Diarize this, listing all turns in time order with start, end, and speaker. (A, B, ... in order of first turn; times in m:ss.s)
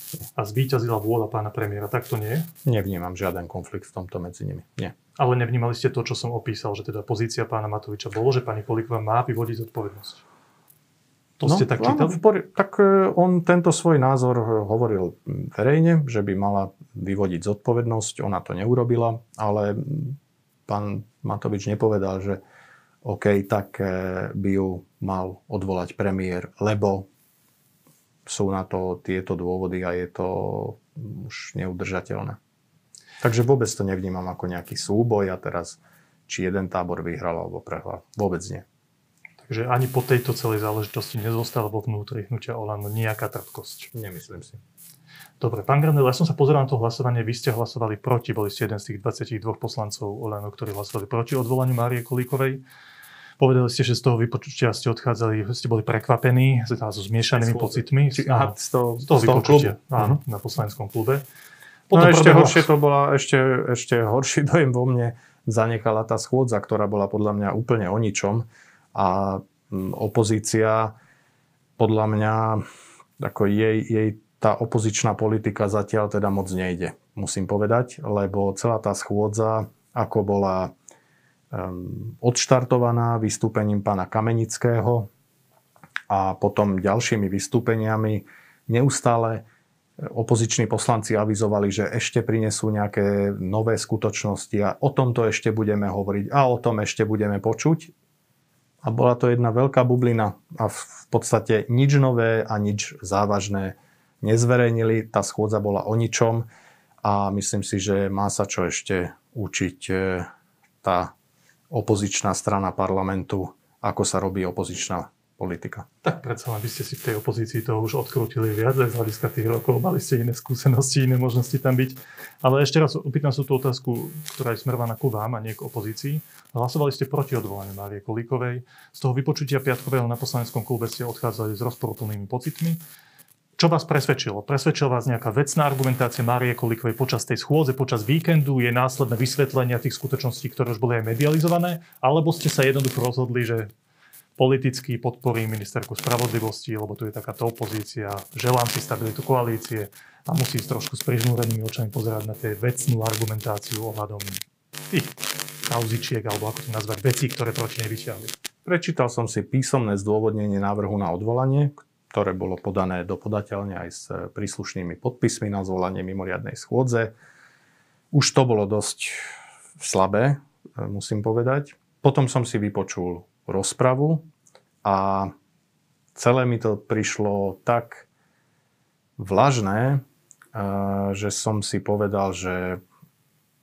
0:00.4-0:02.5 A
0:02.6-0:04.9 B
0:05.2-0:10.2 A
0:11.4-0:12.2 A
0:11.4-0:22.4 B
0:23.0-0:27.1 B
0:28.2-0:32.4 B
0:33.2-0:38.6 B
0:39.4-0:43.9 A
0:43.9-0:44.6 B
0:45.4-0:52.6 A
0:53.4-1:01.2 A
0:57.4-1:00.2 B
1:01.9-1:02.7 A
1:01.9-1:10.9 B
1:11.8-1:12.6 B
1:13.2-1:20.7 B
1:21.5-1:25.1 B
1:26.1-1:29.4 B
1:30.0-1:37.9 B
1:38.8-1:46.4 B
1:47.0-1:50.3 B
1:50.8-1:51.1 B
1:51.7-1:55.8 B
1:56.0-2:12.8 A
2:13.6-2:23.7 A
2:24.4-2:38.3 A
2:38.6-2:47.1 B
2:48.1-2:49.2 B
2:49.8-2:54.3 B
2:54.8-2:55.3 B
2:56.1-2:58.1 B
2:59.2-3:00.0 B
3:00.5-3:02.8 B